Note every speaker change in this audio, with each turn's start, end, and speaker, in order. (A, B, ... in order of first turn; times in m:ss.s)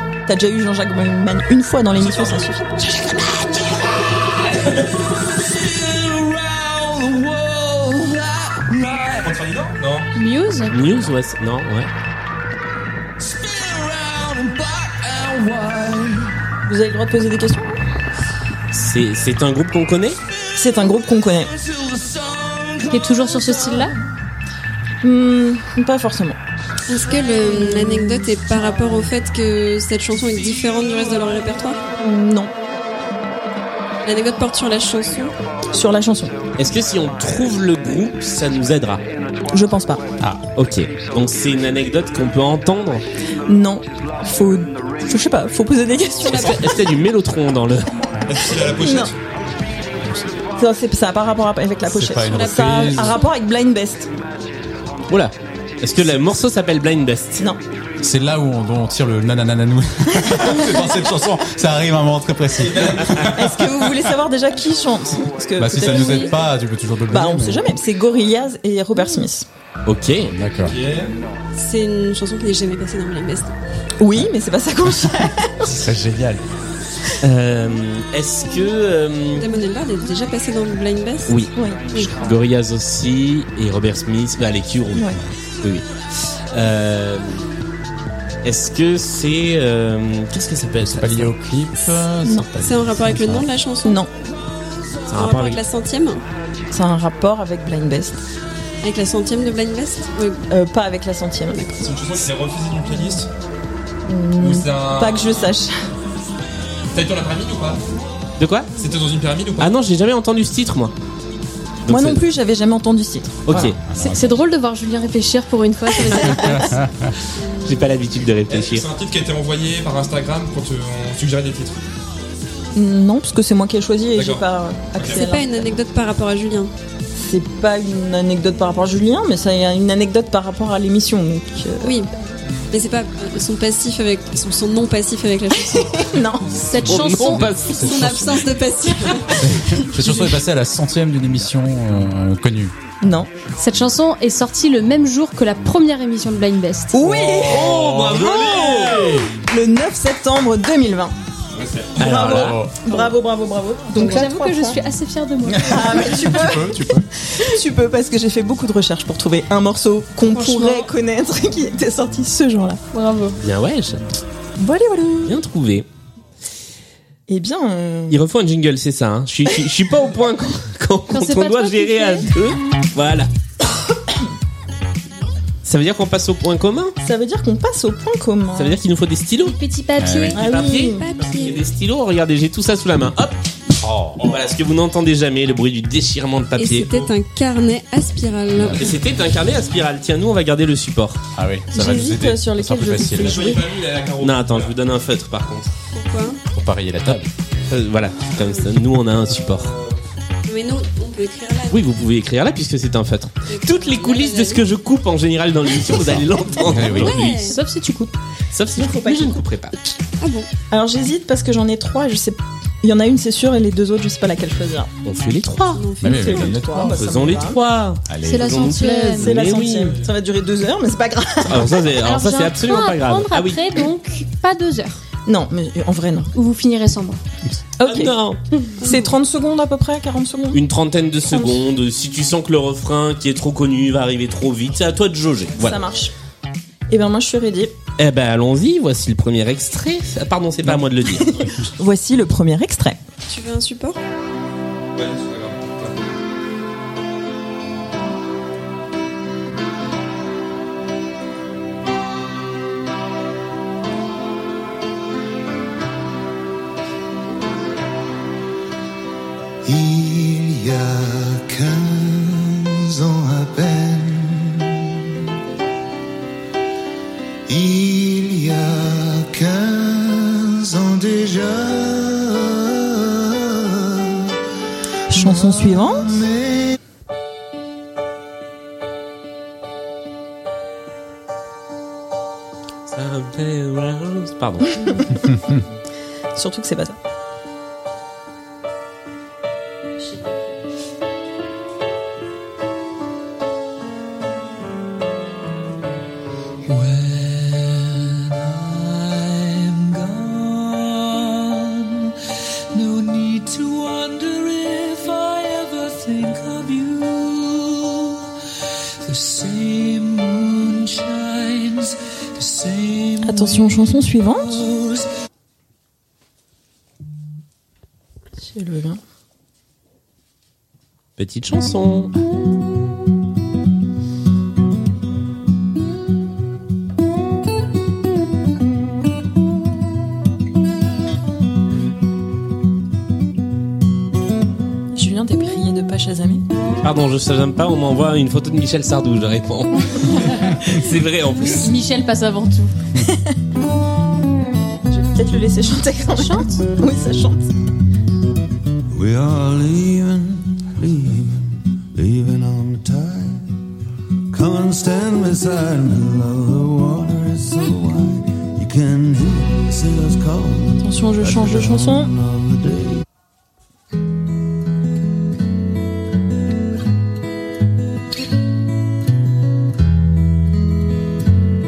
0:00.2-0:02.8 A
0:01.9-0:02.4 B
0:03.0-0:09.4 C
0:09.2-0:10.1 B
0:10.1-0:10.8 D
0:10.7-0:11.9 E
0:13.2-0:16.3 C
0:16.6-0:17.8 A
0:18.7-0:20.2 E
0:20.6-0:21.5 A
0:21.4-0:23.9 C
0:22.9-0:23.9 D
0:25.0-0:26.4 A
0:26.9-0:31.8 F
0:32.0-0:32.5 A
0:34.0-0:35.3 F
0:35.7-0:36.3 A
0:36.6-0:39.0 E
0:39.5-0:40.0 A
0:40.5-0:43.0 E
0:43.5-0:46.8 A
0:46.2-0:47.9 E
0:48.2-0:49.2 B
0:48.6-0:49.1 A
0:50.6-0:54.1 A
0:51.8-0:53.2 G
0:52.2-0:53.3 F
0:55.1-0:57.4 E
0:58.0-1:04.1 G
1:00.2-1:01.0 A
1:02.6-1:03.4 B
1:03.3-1:06.5 A
1:05.6-1:07.6 G
1:05.8-1:06.3 F
1:07.1-1:09.4 A
1:09.8-1:10.3 E
1:10.3-1:10.8 G
1:10.6-1:11.1 B
1:11.5-1:13.5 F
1:14.0-1:15.8 A
1:15.7-1:16.4 G
1:17.2-1:19.5 E
1:19.4-1:21.4 F
1:21.3-1:27.5 E
1:21.5-1:21.8 A
1:28.4-1:31.3 E
1:30.8-1:33.5 G
1:32.2-1:32.5 A
1:32.6-1:34.0 F
1:33.8-1:34.1 A
1:35.1-1:35.6 E
1:35.1-1:36.2 F
1:36.7-1:38.2 A
1:38.8-1:40.4 F
1:40.5-1:41.7 A
1:41.8-1:43.3 B
1:44.1-1:45.7 A
1:44.4-1:45.5 B
1:46.9-1:47.8 B
1:48.4-1:48.7 E
1:48.8-1:49.8 B
1:49.6-1:50.9 E
1:51.8-1:52.2 E
1:51.9-1:53.7 A
1:53.4-1:53.8 E
1:53.5-1:54.5 G
1:53.9-1:56.8 D
1:56.2-1:57.1 G
1:57.4-1:57.8 F
1:57.6-1:58.8 E
1:58.5-2:01.9 B
2:02.7-2:05.7 A
2:04.1-2:04.4 B
2:05.0-2:05.2 B
2:05.1-2:06.7 F
2:07.2-2:12.0 A
2:11.8-2:12.1 F
2:12.7-2:16.1 F
2:15.7-2:16.8 A
2:16.6-2:17.6 D
2:16.8-2:18.6 G
2:16.8-2:18.0 E
2:17.6-2:20.1 F
2:19.4-2:22.7 G
2:23.0-2:23.3 A
2:23.6-2:27.0 D
2:26.9-2:31.1 A
2:27.0-2:29.4 G
2:27.4-2:29.2 E
2:31.5-2:32.0 B
2:32.0-2:32.6 E
2:32.0-2:34.8 A
2:32.0-2:32.8 G
2:33.9-2:36.2 D
2:35.5-2:37.1 G
2:35.6-2:42.8 A
2:40.3-2:40.8 F
2:42.9-2:43.4 D
2:43.4-2:44.0 E
2:44.6-2:45.4 A
2:45.2-2:45.8 E
2:47.3-2:48.2 A
2:48.1-2:53.3 E
2:49.5-2:49.8 A
2:51.1-2:52.3 D
2:55.6-2:56.9 E
2:57.0-2:58.8 A
2:58.5-2:59.6 E
2:59.4-3:00.4 D
3:00.0-3:00.4 G
3:00.3-3:03.4 E
3:00.3-3:01.1 A
3:00.7-3:01.6 F
3:03.8-3:04.1 G
3:04.1-3:06.9 E
3:04.2-3:04.5 B
3:06.6-3:08.9 F
3:08.5-3:08.8 G
3:08.6-3:11.2 E
3:11.3-3:13.5 G
3:11.7-3:13.7 A
3:13.1-3:14.8 B
3:14.2-3:15.7 E
3:15.9-3:16.4 F
3:16.5-3:17.3 G
3:17.0-3:19.7 E
3:19.2-3:20.0 B
3:20.4-3:21.8 F
3:21.7-3:27.4 E
3:23.5-3:24.6 F
3:25.8-3:27.3 G
3:26.9-3:27.6 F
3:27.2-3:28.1 D
3:28.5-3:29.8 E
3:28.8-3:29.4 A
3:30.2-3:30.5 F
3:30.7-3:34.9 A
3:35.0-3:35.8 E
3:35.7-3:36.6 F
3:36.0-3:37.3 G
3:36.0-3:37.6 A
3:36.8-3:40.0 E
3:38.1-3:38.5 G
3:38.2-3:39.4 D
3:39.1-3:41.9 A
3:39.4-3:40.1 B
3:41.4-3:43.7 E
3:42.0-3:45.0 D
3:45.2-3:46.3 A
3:46.3-3:47.2 D
3:47.8-3:48.2 A
3:47.8-3:48.4 E
3:48.8-3:49.1 F
3:48.8-3:50.6 A
3:50.5-3:55.8 E
3:51.3-3:51.6 A
3:55.6-3:56.1 A
3:56.9-3:57.7 A
3:58.0-4:01.3 E
4:01.0-4:03.0 A
4:03.3-4:04.0 F
4:04.9-4:06.0 B
4:19.6-4:24.8 H
4:27.5-4:34.2 H
4:35.1-4:36.2 A
4:35.1-4:36.7 H
4:42.9-4:44.7 E
4:44.8-4:45.4 A
4:46.3-4:47.0 A
4:56.6-5:02.1 C
5:02.7-5:08.1 C
5:09.0-5:15.1 C
5:13.2-5:14.7 A
5:18.4-5:19.0 A
5:21.2-5:22.1 E
5:34.9-5:36.4 A
5:36.8-5:41.8 E
5:40.2-5:40.4 D
5:41.5-5:42.7 D
5:43.1-5:43.3 A
5:44.9-5:47.5 A
5:46.1-5:46.6 D
5:48.9-5:53.5 H
5:54.3-6:03.0 H
6:00.8-6:02.1 A